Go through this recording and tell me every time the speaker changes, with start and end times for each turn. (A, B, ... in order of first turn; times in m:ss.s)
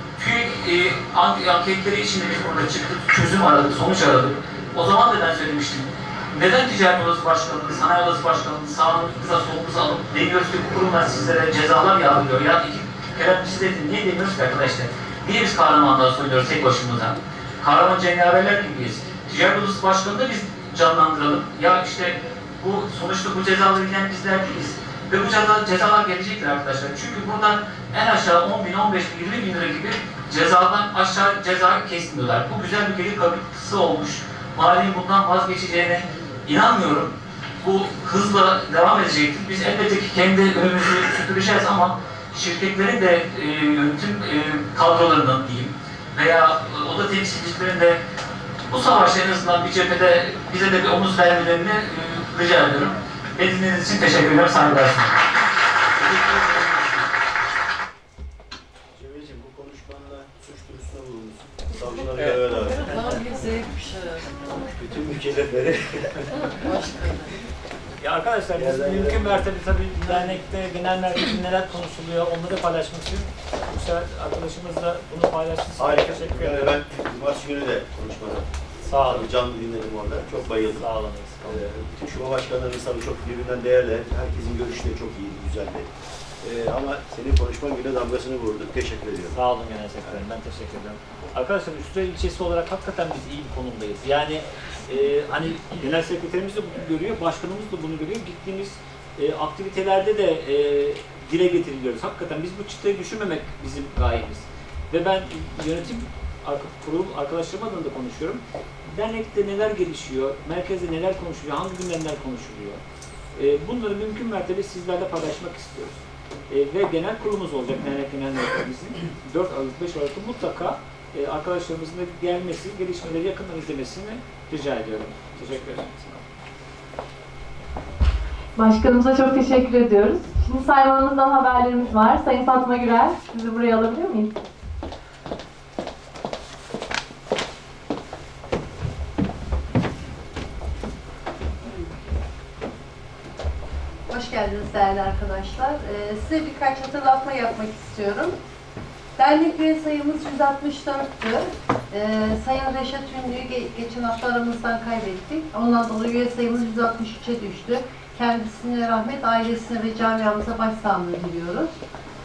0:00.2-0:48.0 A
0:48.7-0:55.2 A
0:56.2-0:56.7 B
0:59.0-1:02.9 B
1:02.6-1:04.5 C
1:04.7-1:06.3 B
1:06.5-1:07.3 C
1:08.0-1:16.7 D
1:08.5-1:09.5 B
1:15.8-1:20.9 B
1:18.9-1:19.3 D
1:20.6-1:21.6 D
1:21.4-1:25.9 B
1:26.4-1:29.4 B
1:29.3-1:48.4 D
1:32.5-1:34.3 A
1:37.0-1:38.0 A
1:39.2-1:39.5 A
1:41.3-1:42.7 A
1:45.7-1:45.9 A
1:46.7-1:48.3 A
1:48.9-1:52.8 D
1:50.1-1:52.7 A
1:53.4-1:56.0 D
1:53.8-1:55.5 A
1:56.5-2:06.2 D
1:57.8-1:58.1 A
2:01.6-2:02.4 A
2:08.6-2:14.4 E
2:24.1-2:28.4 C
2:29.2-2:41.7 C